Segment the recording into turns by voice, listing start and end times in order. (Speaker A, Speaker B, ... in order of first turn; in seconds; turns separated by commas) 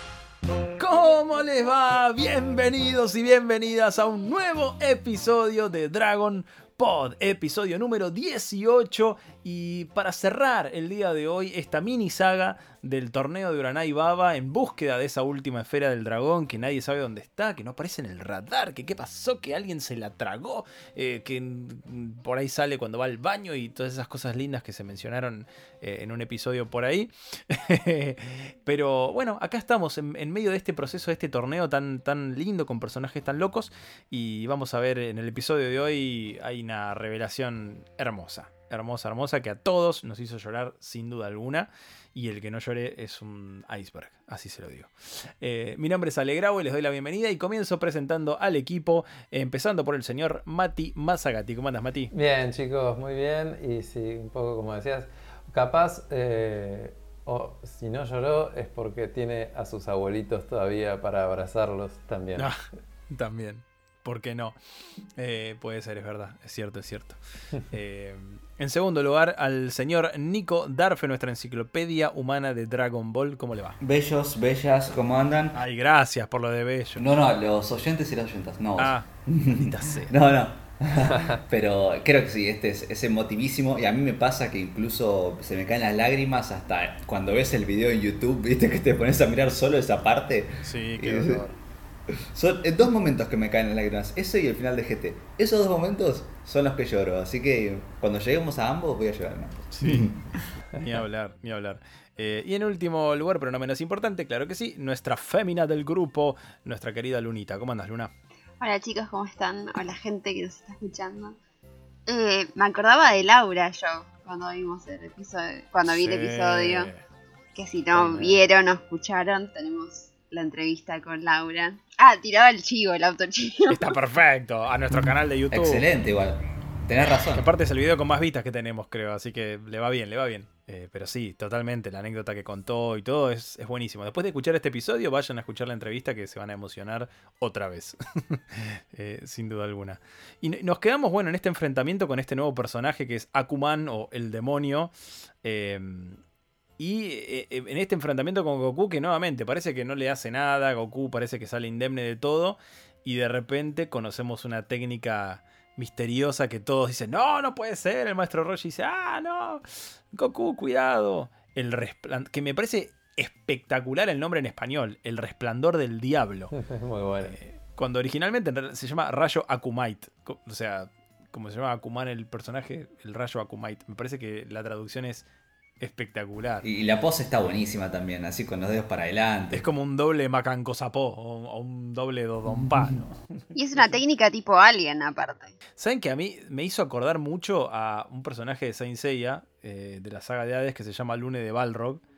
Speaker A: 0.8-52.1, Speaker B: 52.1-62.5, Speaker A: 63.1-64.5, Speaker A: 65.2-73.8, Speaker C: 73.8-75.6, Speaker A: 75.5-77.1, Speaker C: 77.0-91.4, Speaker A: 78.8-80.2, Speaker A: 90.6-91.6, Speaker C: 92.1-100.4, Speaker A: 99.7-100.1, Speaker A: 100.7-108.1, Speaker D: 108.6-111.4, Speaker D: 112.1-116.9, Speaker A: 115.9-117.0, Speaker D: 117.5-123.8, Speaker C: 117.9-118.4, Speaker A: 123.7-125.9, Speaker C: 125.5-127.5, Speaker A: 127.3-146.2, Speaker A: 146.8-166.5, Speaker B: 166.5-167.4, Speaker A: 167.3-175.3, Speaker A: 175.8-176.7, Speaker C: 176.6-179.7, Speaker A: 179.5-183.2, Speaker D: 183.5-185.5, Speaker A: 185.8-192.0